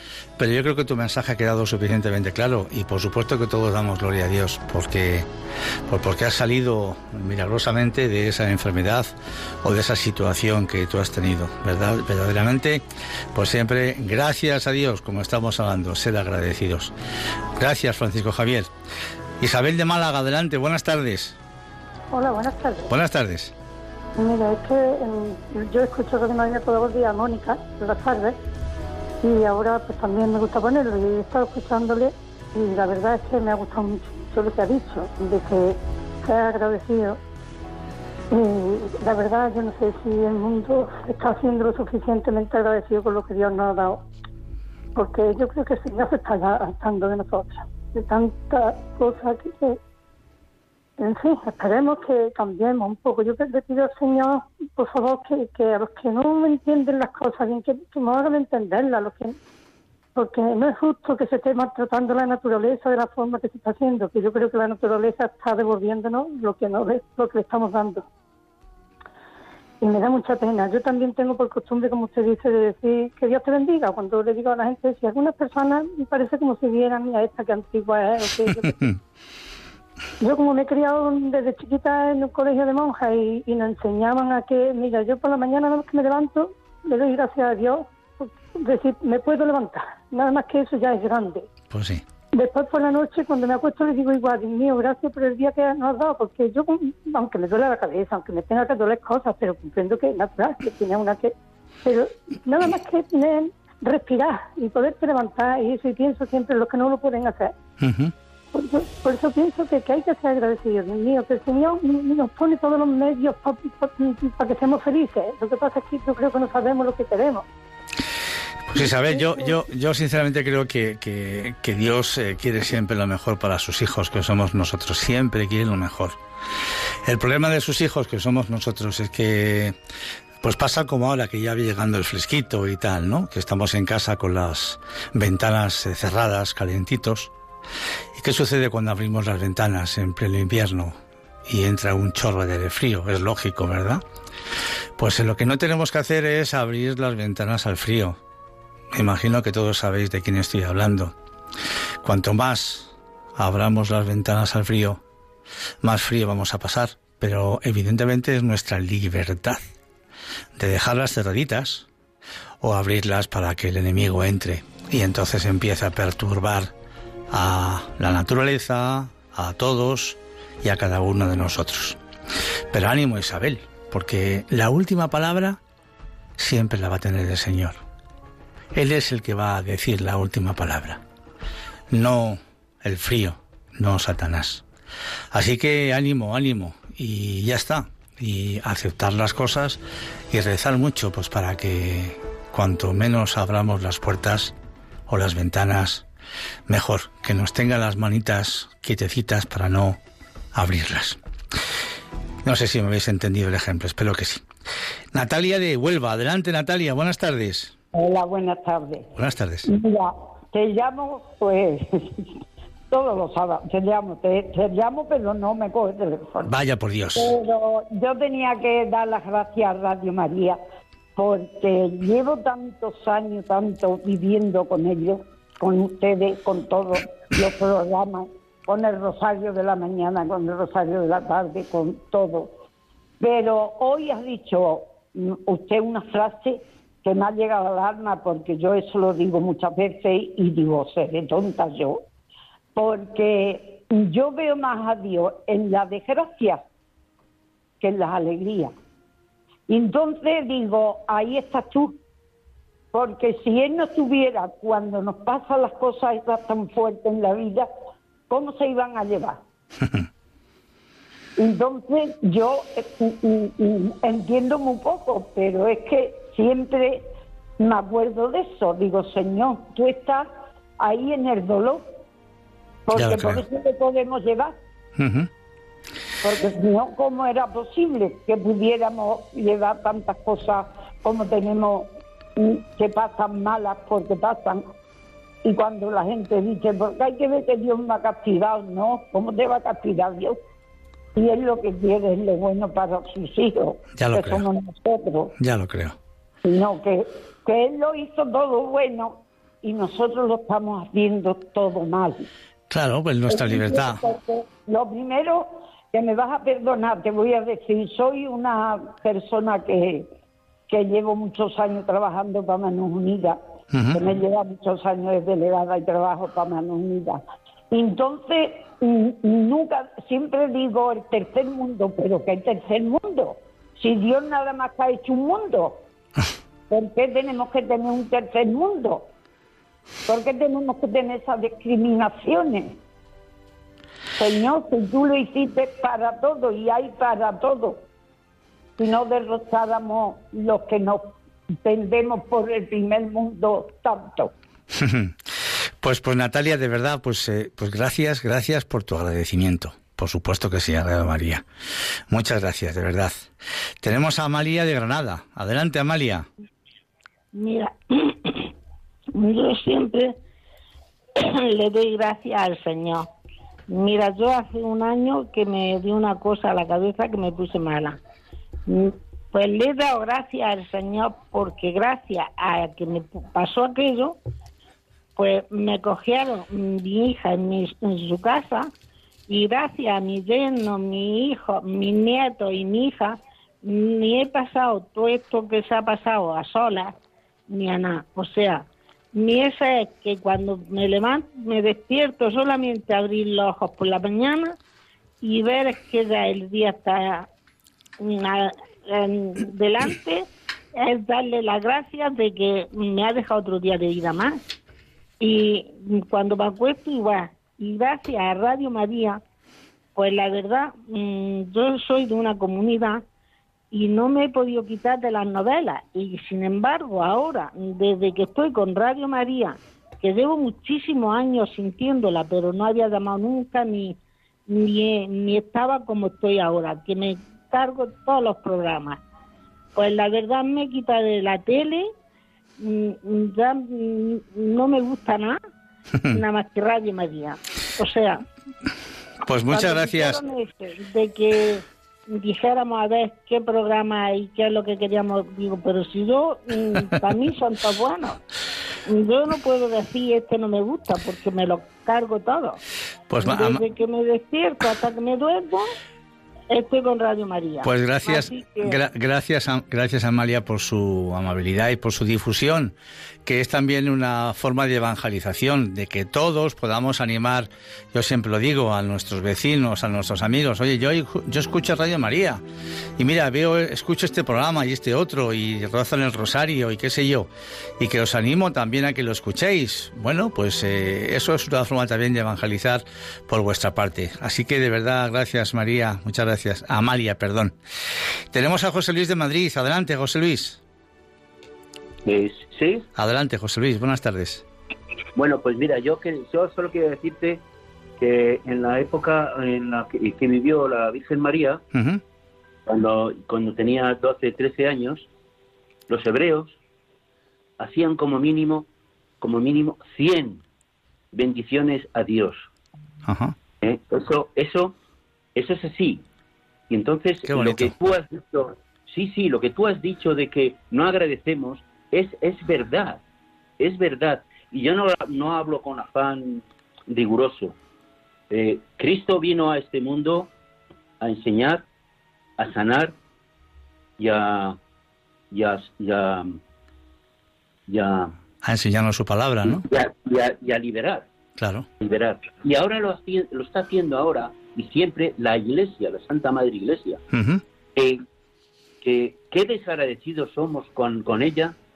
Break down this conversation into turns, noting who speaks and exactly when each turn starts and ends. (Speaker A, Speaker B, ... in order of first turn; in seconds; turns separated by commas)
Speaker A: 0.4-5.3, Speaker A: 5.9-9.1, Speaker A: 9.6-12.8, Speaker A: 13.3-16.9, Speaker A: 17.6-18.7, Speaker A: 19.4-21.4, Speaker B: 22.1-22.9, Speaker A: 22.9-23.5, Speaker B: 24.2-28.4, Speaker B: 29.2-37.2, Speaker B: 38.3-44.0, Speaker B: 45.0-49.8, Speaker B: 51.0-59.4, Speaker B: 60.2-68.1, Speaker B: 69.8-78.9, Speaker B: 80.2-91.5, Speaker A: 91.7-92.0, Speaker B: 92.4-107.5, Speaker A: 107.8-108.1, Speaker B: 108.5-117.5, Speaker A: 118.7-126.2, Speaker B: 118.8-119.5, Speaker A: 127.0-129.8, Speaker A: 130.4-137.3, Speaker A: 138.2-144.0, Speaker A: 145.0-148.2, Speaker A: 148.9-151.1, Speaker A: 152.0-155.0, Speaker A: 155.8-159.6, Speaker A: 160.6-161.9, Speaker A: 162.6-166.7, Speaker A: 167.3-172.0, Speaker A: 172.7-175.6, Speaker A: 176.4-177.8, Speaker A: 178.8-181.0, Speaker A: 181.9-184.6, Speaker A: 185.3-189.8, Speaker A: 190.3-194.6, Speaker A: 195.1-196.1, Speaker A: 196.7-200.0, Speaker A: 200.5-201.2, Speaker A: 202.4-204.4, Speaker A: 205.1-207.8, Speaker C: 207.9-209.1, Speaker A: 209.2-209.7, Speaker C: 209.7-212.2, Speaker C: 212.9-216.5, Speaker A: 216.4-217.3, Speaker C: 217.2-220.6, Speaker C: 221.2-232.6, Speaker C: 233.2-242.1, Speaker C: 242.8-246.6, Speaker C: 247.8-248.7, Speaker C: 249.7-252.0, Speaker C: 252.9-257.7, Speaker C: 258.3-259.4, Speaker C: 261.4-267.1, Speaker C: 267.6-270.3, Speaker C: 270.8-271.9, Speaker C: 272.9-274.6, Speaker A: 272.9-273.4, Speaker A: 275.0-275.3, Speaker C: 276.2-284.7, Speaker C: 285.4-290.4, Speaker C: 291.2-295.3, Speaker A: 294.0-294.5, Speaker A: 295.4-296.0, Speaker C: 296.4-302.3, Speaker A: 302.7-304.0, Speaker C: 303.3-310.1, Speaker C: 310.7-313.4, Speaker A: 313.7-314.0, Speaker C: 313.9-317.2, Speaker C: 317.7-325.8, Speaker C: 326.7-329.1, Speaker C: 330.1-332.8, Speaker C: 334.2-337.9, Speaker C: 338.8-344.3, Speaker A: 344.8-345.1, Speaker A: 345.8-351.4, Speaker A: 352.1-353.3, Speaker A: 353.8-356.3, Speaker D: 357.3-358.5, Speaker D: 359.1-360.2, Speaker D: 361.1-363.1, Speaker D: 363.7-368.0, Speaker D: 368.7-374.2, Speaker D: 375.2-378.7, Speaker D: 379.3-387.0, Speaker D: 387.5-394.6, Speaker D: 395.2-397.3, Speaker D: 398.0-404.4, Speaker D: 405.2-409.2, Speaker D: 410.0-413.1, Speaker D: 413.7-429.0, Speaker D: 429.8-431.9, Speaker D: 432.6-435.4, Speaker D: 436.1-438.2, Speaker A: 439.2-440.2, Speaker D: 439.5-448.2, Speaker D: 448.9-452.6, Speaker A: 453.1-453.6, Speaker D: 453.2-455.7, Speaker D: 456.5-458.8, Speaker A: 457.6-462.7, Speaker A: 463.2-472.4, Speaker A: 473.0-487.6, Speaker A: 488.3-490.6, Speaker E: 492.1-492.9, Speaker A: 493.0-494.4, Speaker E: 495.1-497.4, Speaker E: 498.0-501.6, Speaker A: 501.7-502.0, Speaker E: 502.7-505.1, Speaker E: 505.9-506.6, Speaker E: 507.6-508.7, Speaker E: 509.2-510.4, Speaker E: 511.1-512.5, Speaker A: 513.0-513.4, Speaker E: 513.6-514.8, Speaker E: 515.4-516.0, Speaker E: 516.7-523.0, Speaker A: 517.2-517.7, Speaker E: 523.6-527.5, Speaker E: 528.3-530.3, Speaker E: 531.0-531.6, Speaker E: 532.4-532.9, Speaker E: 534.0-534.6, Speaker E: 535.3-536.4, Speaker E: 537.7-538.2, Speaker A: 538.4-539.6, Speaker E: 539.5-541.1, Speaker A: 541.4-541.7, Speaker E: 541.8-547.0, Speaker A: 547.1-547.4, Speaker E: 547.8-548.0, Speaker E: 548.8-551.5